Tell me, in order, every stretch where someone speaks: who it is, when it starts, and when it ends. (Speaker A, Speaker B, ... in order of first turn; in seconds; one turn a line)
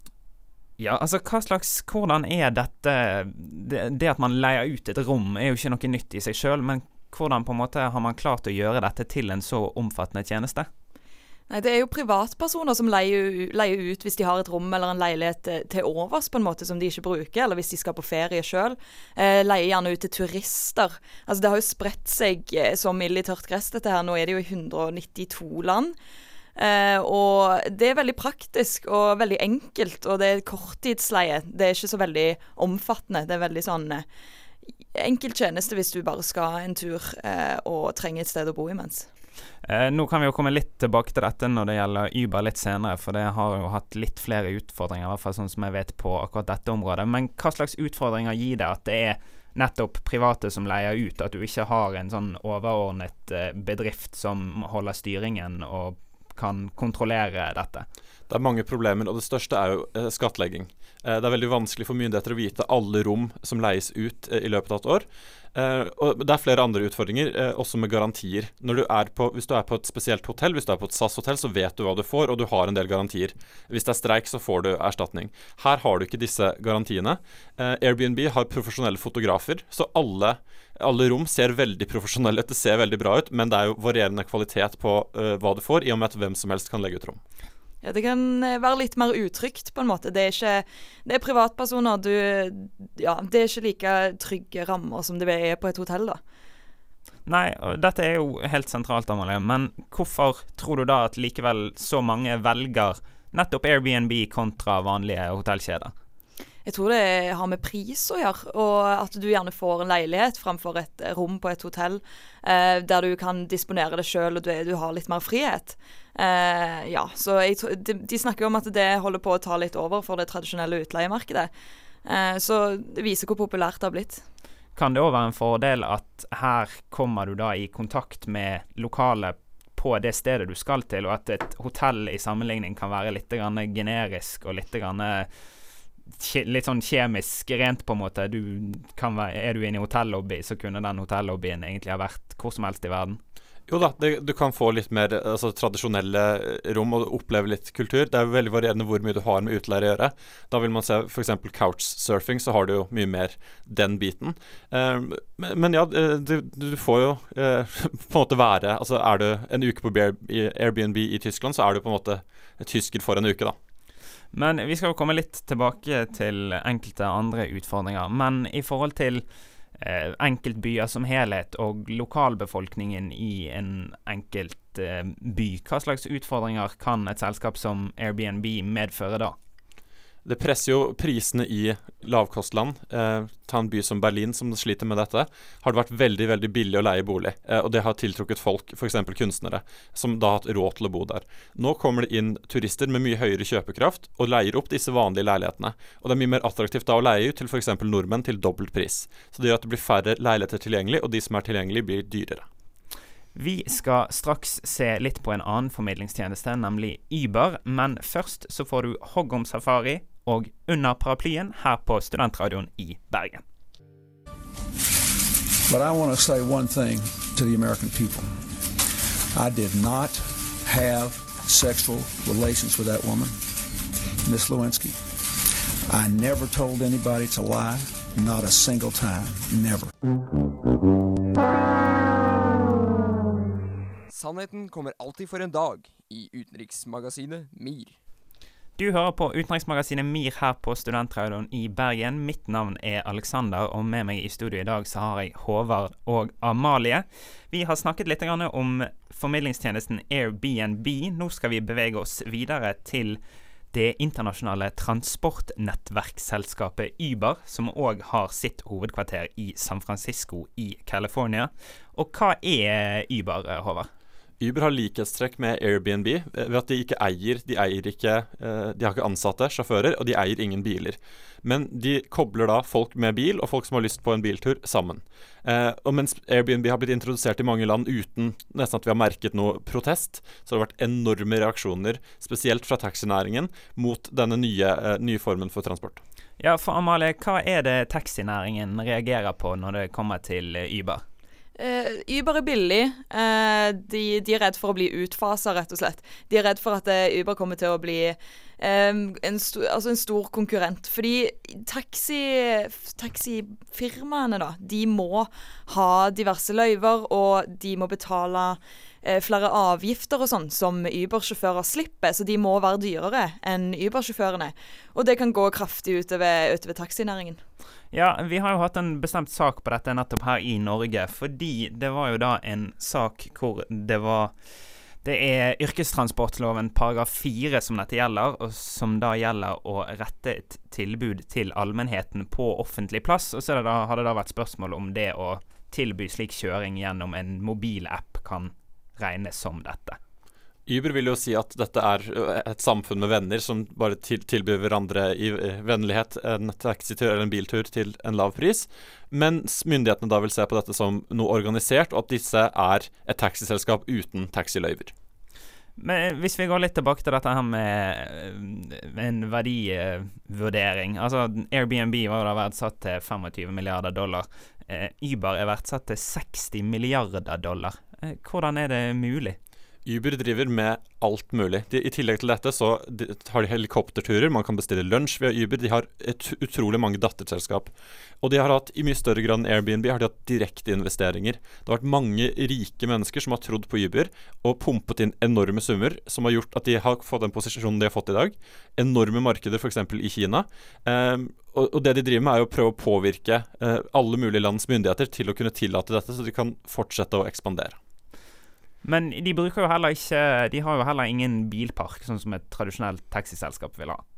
Speaker A: 0.8-10.7
Speaker B: 11.5-25.9
Speaker B: 26.6-34.0
Speaker B: 34.9-39.1
Speaker A: 39.6-57.9
Speaker C: 58.3-87.2
Speaker B: 87.8-96.2
Speaker A: 97.2-105.9
Speaker B: 106.7-121.5
Speaker B: 122.0-124.2
Speaker A: 124.8-135.3
Speaker A: 136.2-143.2
Speaker C: 143.7-163.6
Speaker A: 164.3-169.2
Speaker A: 169.8-179.3
Speaker C: 180.2-202.4
Speaker A: 203.3-213.4
Speaker D: 215.7-218.5
Speaker D: 219.3-223.7
Speaker D: 224.2-225.0
Speaker D: 225.9-229.9
Speaker E: 234.1-238.0
Speaker A: 238.8-253.2
Speaker A: 253.7-263.9
Speaker C: 264.4-286.0
Speaker A: 286.4-291.0
Speaker B: 291.6-317.4
Speaker A: 317.9-324.3
Speaker A: 325.0-340.0
Speaker C: 340.7-354.9
Speaker A: 355.8-369.4
Speaker C: 369.8-397.8
Speaker A: 398.8-404.0